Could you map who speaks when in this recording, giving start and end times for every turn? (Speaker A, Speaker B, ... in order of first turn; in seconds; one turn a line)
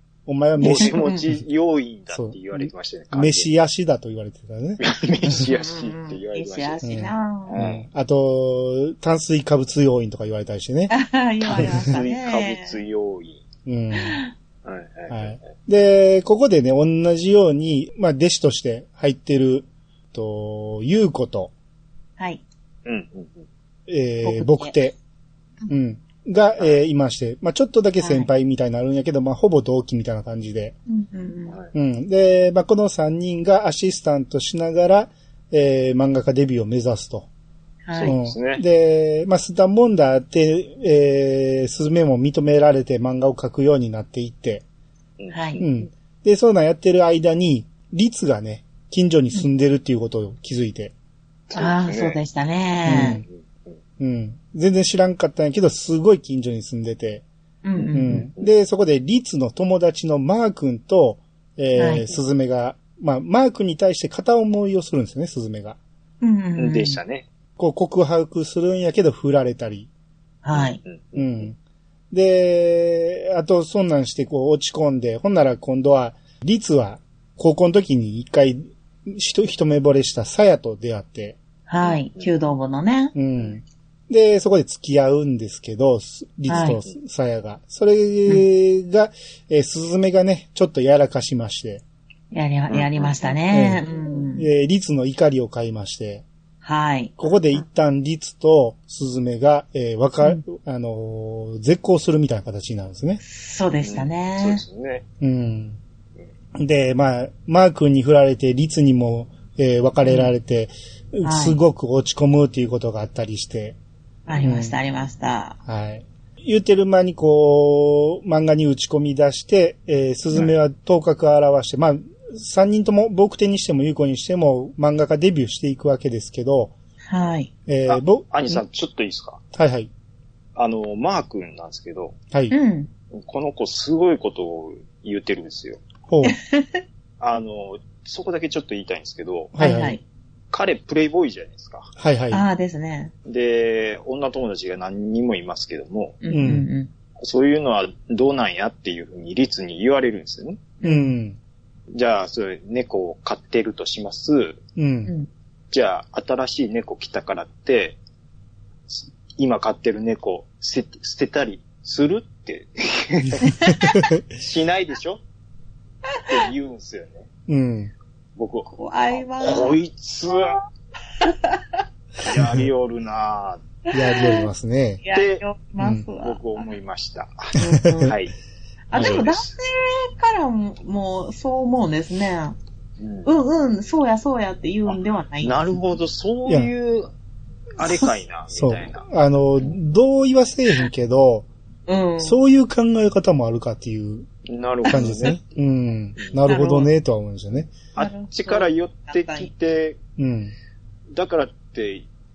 Speaker A: 0.3-1.4
Speaker B: 0.6-3.6
Speaker C: 0.7-1.3
Speaker A: 2.1-4.8
Speaker B: 4.8-6.9
Speaker C: 5.5-7.6
Speaker A: 6.8-10.9
Speaker B: 7.5-7.9
Speaker C: 10.9-12.8
Speaker B: 11.5-13.4
Speaker A: 11.5-11.9
Speaker A: 13.7-14.2
Speaker C: 14.0-14.3
Speaker B: 14.6-15.4
Speaker A: 15.1-21.5
Speaker C: 22.2-22.4
Speaker B: 22.9-23.5
Speaker A: 23.9-25.0
Speaker C: 24.2-24.8
Speaker A: 25.7-30.8
Speaker C: 28.0-28.3
Speaker C: 30.9-31.6
Speaker A: 31.7-37.3
Speaker C: 37.9-38.2
Speaker B: 37.9-38.6
Speaker A: 38.1-44.6
Speaker B: 45.2-45.9
Speaker C: 45.3-45.6
Speaker A: 45.6-50.9
Speaker B: 51.5-52.2
Speaker C: 51.5-53.2
Speaker A: 52.9-53.2
Speaker B: 52.9-53.8
Speaker A: 54.0-57.2
Speaker C: 57.6-58.3
Speaker B: 57.8-58.5
Speaker A: 57.9-65.8
Speaker C: 61.8-62.0
Speaker C: 66.2-67.0
Speaker B: 66.6-67.3
Speaker A: 67.6-69.9
Speaker C: 70.4-70.8
Speaker B: 70.5-71.5
Speaker A: 71.2-71.6
Speaker A: 72.1-81.4
Speaker C: 81.7-83.1
Speaker B: 81.8-82.3
Speaker A: 83.2-91.8
Speaker C: 86.5-86.8
Speaker B: 86.5-87.0
Speaker C: 92.3-94.5
Speaker B: 92.7-93.4
Speaker A: 93.5-93.8
Speaker A: 94.4-96.2
Speaker C: 96.6-97.6
Speaker A: 97.2-103.2
Speaker C: 103.2-104.6
Speaker B: 103.8-105.0
Speaker A: 105.2-105.8
Speaker A: 106.6-113.8
Speaker C: 110.0-110.3
Speaker C: 111.2-111.6
Speaker C: 114.3-115.6
Speaker A: 114.4-114.8
Speaker A: 115.7-126.7
Speaker C: 127.1-127.5
Speaker A: 127.7-128.6
Speaker B: 127.9-129.4
Speaker A: 129.5-129.9
Speaker B: 130.6-132.2
Speaker C: 132.5-132.9
Speaker B: 133.1-135.8
Speaker A: 136.1-136.3
Speaker C: 136.2-136.8
Speaker B: 137.2-139.6
Speaker A: 139.6-140.0
Speaker C: 139.6-140.0
Speaker B: 140.5-141.9
Speaker A: 142.0-142.4
Speaker C: 142.3-143.1
Speaker B: 143.3-146.2
Speaker C: 146.2-146.9
Speaker A: 146.3-146.7
Speaker B: 147.2-150.7
Speaker C: 150.8-151.2
Speaker A: 150.8-151.4
Speaker B: 151.9-154.6
Speaker A: 154.8-155.1
Speaker B: 155.7-158.0
Speaker B: 158.9-163.5
Speaker C: 163.4-164.0
Speaker A: 163.7-164.2
Speaker B: 164.3-165.2
Speaker B: 166.3-167.3
Speaker A: 167.5-167.9
Speaker B: 168.4-170.6
Speaker C: 168.7-169.8
Speaker C: 170.3-170.6
Speaker C: 171.2-171.8
Speaker B: 172.2-173.6
Speaker A: 172.3-172.7
Speaker A: 173.9-175.0
Speaker C: 174.2-174.5
Speaker C: 175.0-176.6
Speaker B: 175.1-175.4
Speaker A: 175.8-176.1
Speaker B: 176.2-177.5
Speaker C: 177.6-178.2
Speaker A: 177.7-178.1
Speaker B: 178.1-178.3
Speaker C: 178.9-182.6
Speaker B: 178.9-179.5
Speaker B: 183.0-183.3
Speaker C: 183.3-185.7
Speaker B: 184.9-187.1
Speaker B: 187.8-189.1
Speaker A: 188.5-191.5
Speaker C: 191.9-192.4
Speaker A: 192.2-194.3
Speaker B: 194.5-195.4
Speaker C: 194.9-195.4
Speaker A: 194.9-197.8
Speaker B: 196.2-196.5
Speaker C: 196.5-196.9
Speaker B: 197.9-200.0
Speaker C: 198.0-199.5
Speaker A: 200.2-200.5
Speaker B: 201.1-202.1